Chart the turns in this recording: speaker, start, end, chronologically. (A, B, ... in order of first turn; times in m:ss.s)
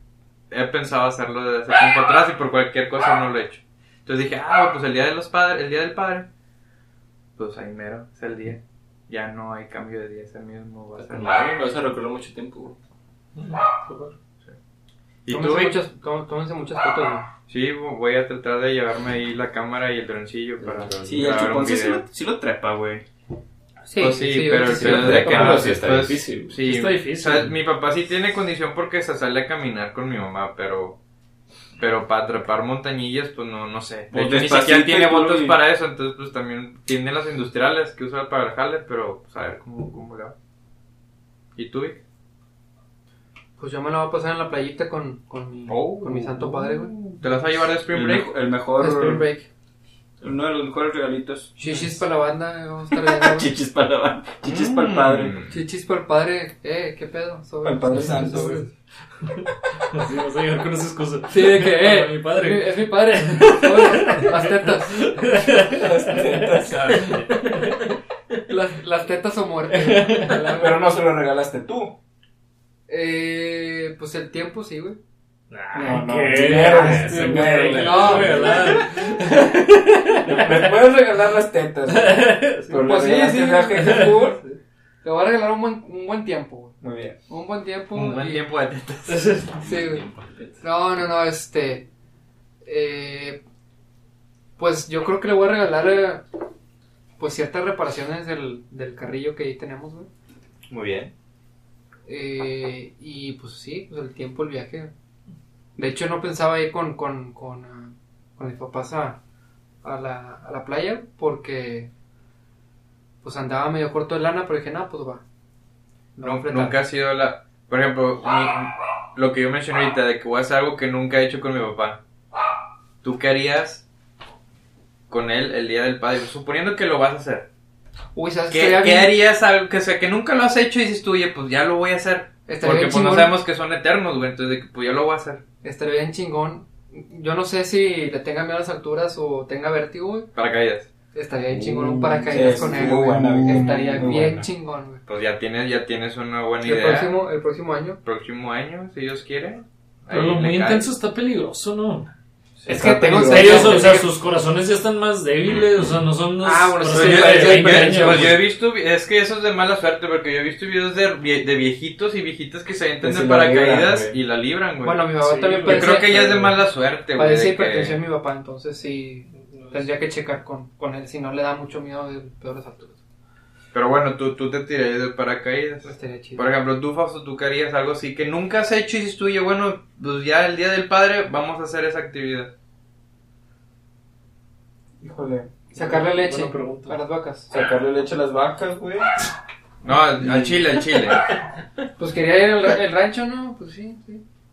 0:00.5-0:06.3 A
0:07.4-0:11.3 A
0:11.0-0:12.8 B
0:13.3-0:14.1 C
0:15.2-0:15.8 A
0:15.3-0:17.3 D
0:17.5-0:22.0 A
0:20.6-0:21.3 B
0:21.0-0:23.0 E
0:23.8-0:25.6 D
0:24.0-0:31.0 A
0:24.6-0:26.6 B
0:26.6-0:27.6 C
0:31.8-0:40.3 A
0:34.1-0:35.6 E
0:41.6-0:42.0 A
0:43.6-0:46.9 D
0:45.7-0:48.3 A
0:45.7-0:46.1 E
0:47.9-0:49.2 E
0:48.8-0:49.5 D
0:50.2-0:51.5 E
0:51.6-0:53.5 D
0:51.6-0:52.0 C
0:53.0-0:55.3 E
0:54.4-0:55.5 A
0:55.5-0:58.7 D
0:57.6-0:58.6 E
0:58.0-0:58.6 C
0:59.2-1:07.8 C
1:01.3-1:05.3 D
1:05.6-1:07.2 E
1:08.5-1:10.8 D
1:09.7-1:10.6 C
1:10.4-1:11.9 E
1:12.9-1:15.0 D
1:15.5-1:20.8 C
1:15.7-1:18.8 D
1:15.7-1:18.8 E
1:16.7-1:18.7 B
1:20.2-1:24.3 E
1:21.9-1:22.9 C
1:22.7-1:24.4 D
1:23.8-1:24.6 C
1:25.0-1:26.7 D
1:26.8-1:27.2 E
1:27.3-1:28.4 D
1:27.9-1:29.3 A
1:29.1-1:29.5 C
1:29.5-1:30.0 D
1:29.6-1:30.6 B
1:30.6-1:31.9 D
1:32.6-1:33.4 D
1:34.6-1:36.2 D
1:37.2-1:40.1 D
1:40.7-1:41.1 A
1:42.0-1:44.9 D
1:45.8-1:49.2 D
1:49.8-1:51.9 D
1:53.2-1:55.2 D
1:56.2-1:56.8 D
1:56.2-2:02.0 A
2:03.0-2:03.8 A
2:05.1-2:07.5 A
2:08.1-2:09.1 D
2:08.5-2:15.4 A
2:12.5-2:13.4 D
2:15.6-2:20.3 D
2:20.3-2:20.9 A
2:21.1-2:25.0 D
2:21.5-2:23.6 B
2:22.3-2:24.5 E
2:25.0-2:27.2 A
2:26.6-2:28.0 D
2:28.0-2:30.9 A
2:30.1-2:32.1 C
2:32.6-2:33.9 E
2:32.7-2:34.1 D
2:33.1-2:38.4 C
2:35.6-2:35.8 B
2:36.4-2:38.3 D
2:36.9-2:45.0 A
2:43.0-2:44.2 E
2:44.8-2:46.4 D
2:45.2-2:46.5 C
2:45.6-2:48.0 A
2:47.1-2:53.0 D
2:49.4-2:49.9 C
2:53.7-3:02.5 A
2:55.8-2:56.5 D
3:05.0-3:05.5 E
3:05.7-3:07.5 D
3:05.8-3:07.0 C
3:07.5-3:09.1 E
3:09.8-3:11.3 A
3:12.0-3:14.2 D